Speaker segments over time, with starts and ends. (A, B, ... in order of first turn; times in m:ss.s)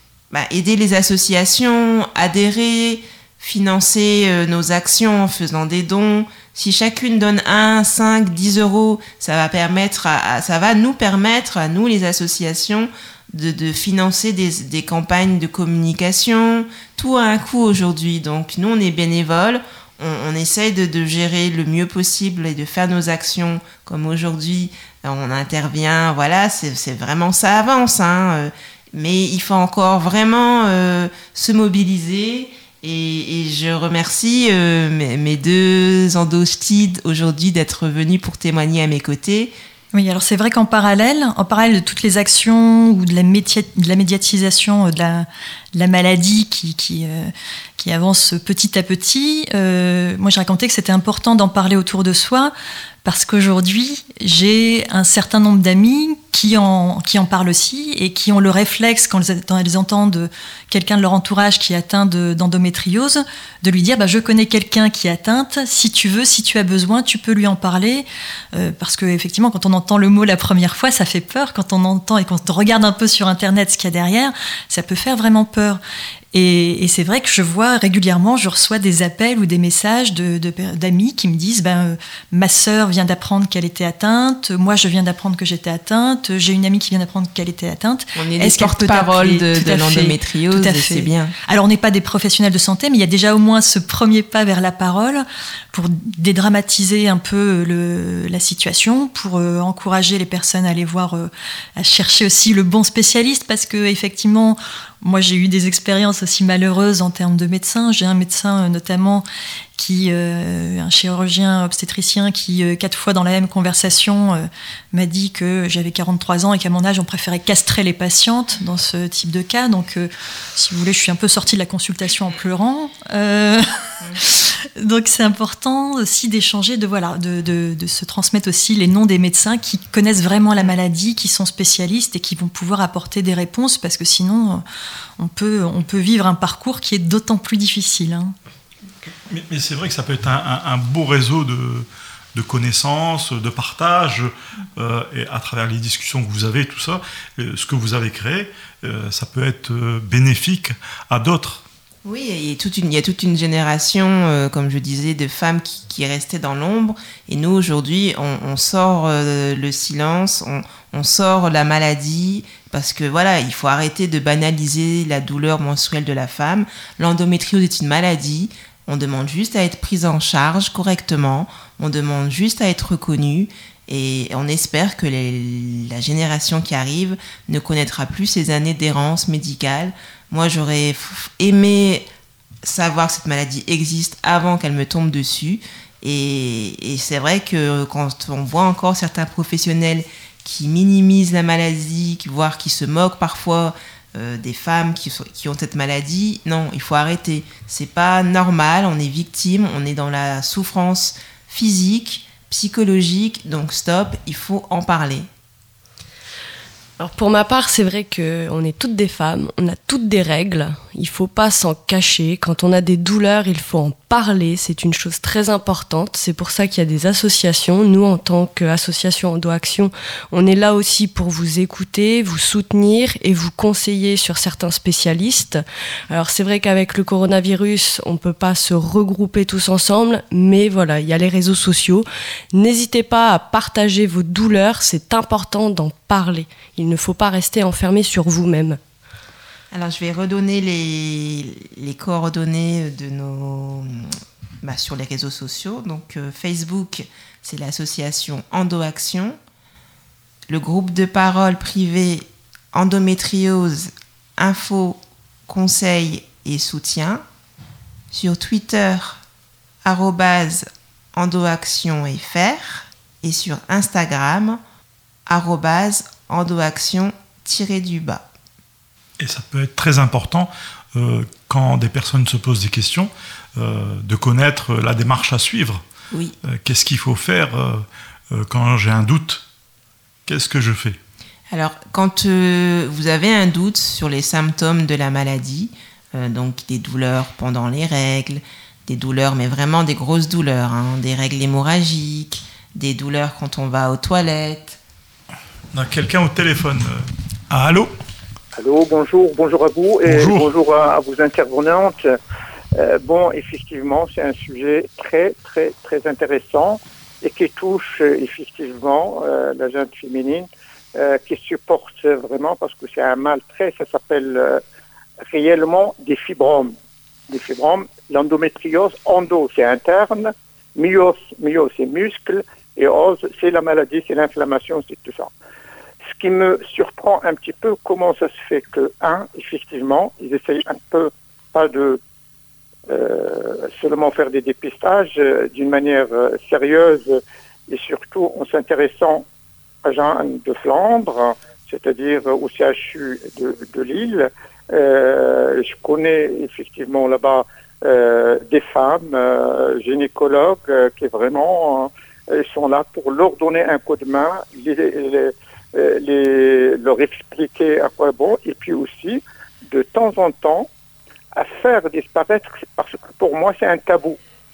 0:00.3-0:39.5 A
0:39.9-0:52.5 B
0:53.0-1:15.8 B
1:16.3-1:49.2 B
1:28.1-1:31.3 A
1:49.8-2:03.6 B
2:04.2-2:14.6 B
2:15.2-2:18.3 B
2:19.3-2:31.6 C
2:32.0-3:02.1 A
3:02.6-3:25.3 A
3:27.0-3:58.8 D
3:59.7-4:09.4 A
4:10.5-4:17.2 A
4:18.1-4:19.2 A
4:19.8-4:24.6 A
4:25.3-4:28.2 A
4:29.2-4:35.8 C
4:36.5-4:39.4 C
4:40.2-4:41.0 C
4:41.5-4:54.8 A
4:55.7-4:57.9 C
4:58.6-5:02.1 E
5:00.0-5:00.5 C
5:02.8-5:14.6 E
5:15.3-5:16.7 E
5:17.3-5:25.3 E
5:26.1-5:32.0 E
5:32.9-5:39.2 E
5:39.8-6:00.7 E
6:01.3-6:04.2 E